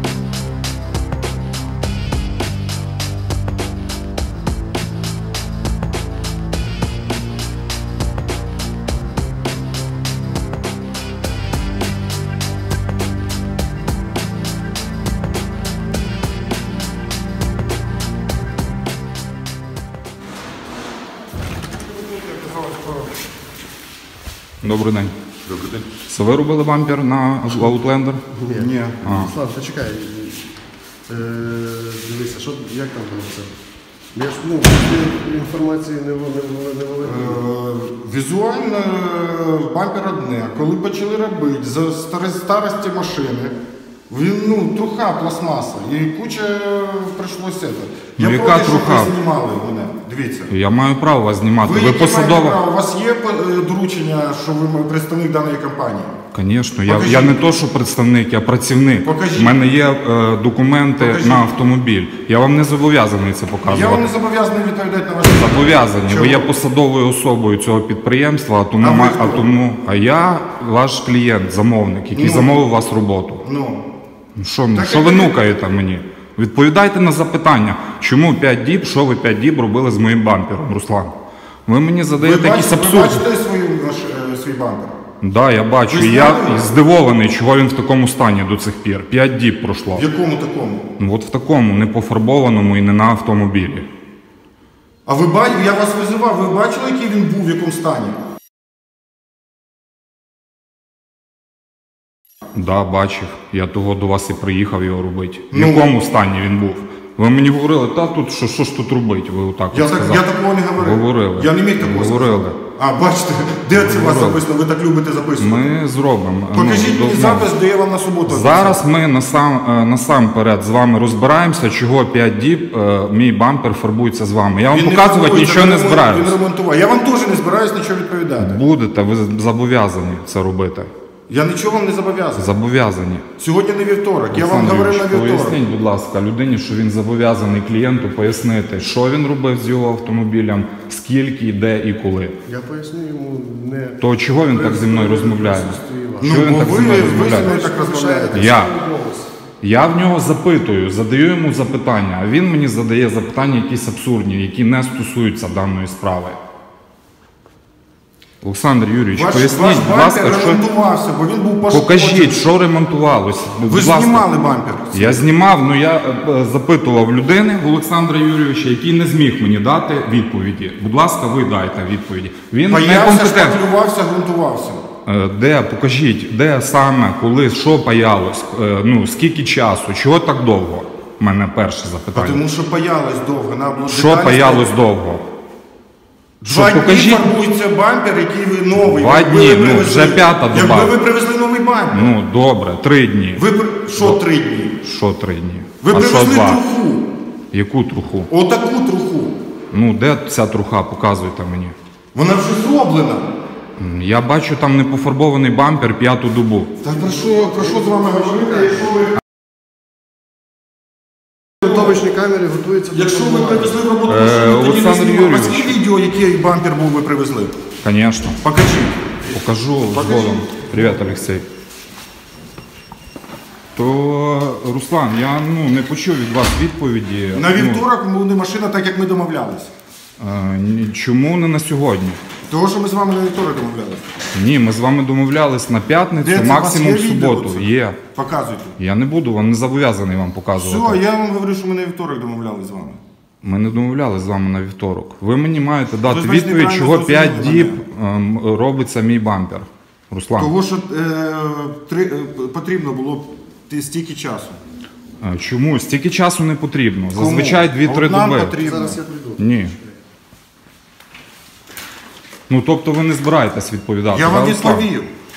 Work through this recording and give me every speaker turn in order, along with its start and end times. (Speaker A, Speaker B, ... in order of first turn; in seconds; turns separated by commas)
Speaker A: 21.9-23.1, Speaker B: 24.6-25.1, Speaker A: 25.5-25.8, Speaker B: 26.1-28.2, Speaker C: 28.3-30.5, Speaker A: 28.5-29.0, Speaker B: 29.0-29.3, Speaker C: 31.1-33.5, Speaker C: 34.1-37.4, Speaker A: 37.0-43.5, Speaker A: 44.1-50.5, Speaker B: 48.2-49.1, Speaker B: 50.5-52.6, Speaker A: 51.6-56.2, Speaker B: 56.3-64.1, Speaker A: 56.8-57.4, Speaker A: 59.0-59.6, Speaker A: 61.0-61.5, Speaker A: 63.6-66.5, Speaker B: 65.4-73.4, Speaker A: 68.8-69.5, Speaker A: 72.1-72.6, Speaker A: 73.4-73.8, Speaker B: 74.3-81.1, Speaker A: 74.7-75.5, Speaker B: 81.7-83.2, Speaker A: 82.2-85.0, Speaker B: 85.2-90.0, Speaker A: 85.9-86.6, Speaker A: 89.9-90.9, Speaker B: 91.0-93.9, Speaker A: 95.0-98.2, Speaker B: 102.5-112.6, Speaker A: 105.5-106.0, Speaker A: 109.7-115.7, Speaker B: 113.7-114.4, Speaker B: 115.4-117.5, Speaker A: 116.5-118.8, Speaker B: 118.2-126.4, Speaker A: 124.7-128.6, Speaker B: 128.4-130.9, Speaker A: 131.3-132.5, Speaker B: 132.3-133.3, Speaker A: 133.3-135.6, Speaker B: 134.3-142.4, Speaker C: 142.4-149.3, Speaker B: 144.0-147.5, Speaker A: 146.2-148.4, Speaker B: 148.3-148.7, Speaker B: 149.6-156.4, Speaker B: 158.4-160.6, Speaker A: 159.1-162.4, Speaker B: 161.7-164.2, Speaker A: 163.7-165.3, Speaker B: 164.9-173.6, Speaker A: 172.7-174.8, Speaker B: 175.1-182.4, Speaker A: 182.1-184.7, Speaker B: 183.9-185.2, Speaker A: 186.4-192.1, Speaker B: 186.4-187.3, Speaker B: 188.8-190.9, Speaker B: 191.9-194.2, Speaker A: 193.3-194.8, Speaker B: 194.8-196.6, Speaker A: 195.8-197.1, Speaker B: 197.5-198.3, Speaker A: 198.3-199.4, Speaker B: 199.7-201.8, Speaker A: 202.1-203.3, Speaker B: 203.8-206.7, Speaker A: 206.8-209.1, Speaker C: 207.1-208.8, Speaker C: 211.6-213.8, Speaker A: 212.9-217.6, Speaker B: 214.1-215.8, Speaker B: 217.8-218.4, Speaker A: 218.4-219.2, Speaker B: 219.3-221.5, Speaker A: 219.9-221.0, Speaker B: 223.8-227.8, Speaker A: 227.3-229.7, Speaker B: 230.2-232.2, Speaker A: 232.5-234.1, Speaker B: 234.3-238.0, Speaker A: 236.2-238.8, Speaker B: 238.8-241.0, Speaker A: 240.6-243.0, Speaker B: 243.4-250.5, Speaker A: 246.0-247.8, Speaker A: 250.4-254.6, Speaker B: 255.2-258.6, Speaker A: 257.1-259.0, Speaker C: 258.6-259.5, Speaker B: 259.4-259.7, Speaker B: 262.5-264.9, Speaker A: 264.1-265.1